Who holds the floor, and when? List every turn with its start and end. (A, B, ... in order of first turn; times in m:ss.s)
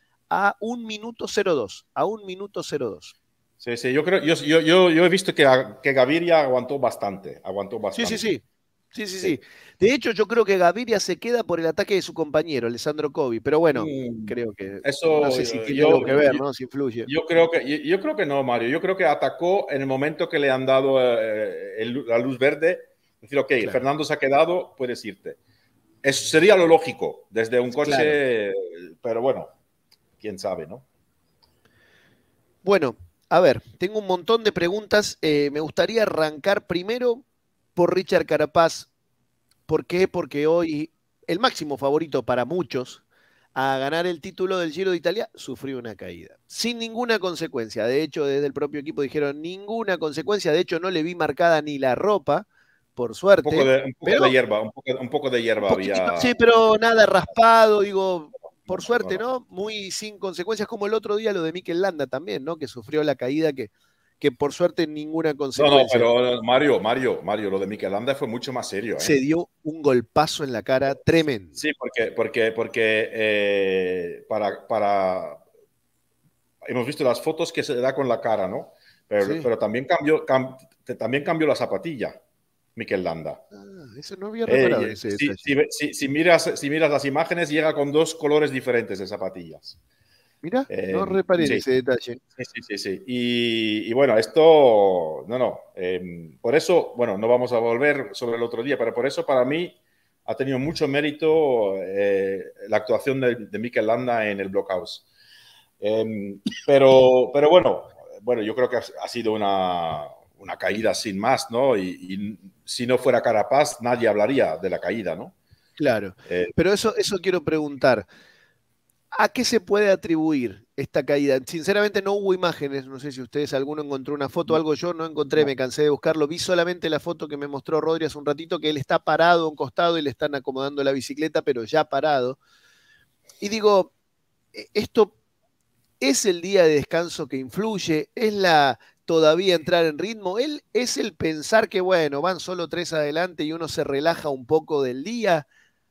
0:00.3-0:03.1 A
0:03.6-0:08.3 B
0:08.0-0:17.1 A
0:13.7-0:16.4 B
0:17.0-0:25.4 B
0:26.0-0:29.5 B
0:27.8-0:28.2 A
0:30.2-0:30.8 B
0:32.6-0:37.2 A
0:37.8-0:38.9 A
0:39.7-0:43.0 A
0:43.5-0:54.3 A
0:53.4-0:56.3 B
0:55.7-1:06.1 A
0:58.7-0:59.2 B
1:05.6-1:09.2 B
1:09.0-1:11.6 A
1:11.6-1:15.4 B
1:16.6-1:22.2 B
1:19.2-1:19.5 A
1:22.8-1:23.4 B
1:23.5-1:25.5 A
1:24.4-1:29.8 B
1:30.4-1:32.2 A
1:30.7-1:31.6 B
1:32.4-1:45.0 B
1:45.8-1:55.3 B
1:55.8-1:58.0 A
1:56.3-1:56.5 B
1:59.1-2:12.4 A
2:13.4-2:13.9 A
2:14.5-2:15.1 A
2:16.0-2:25.4 A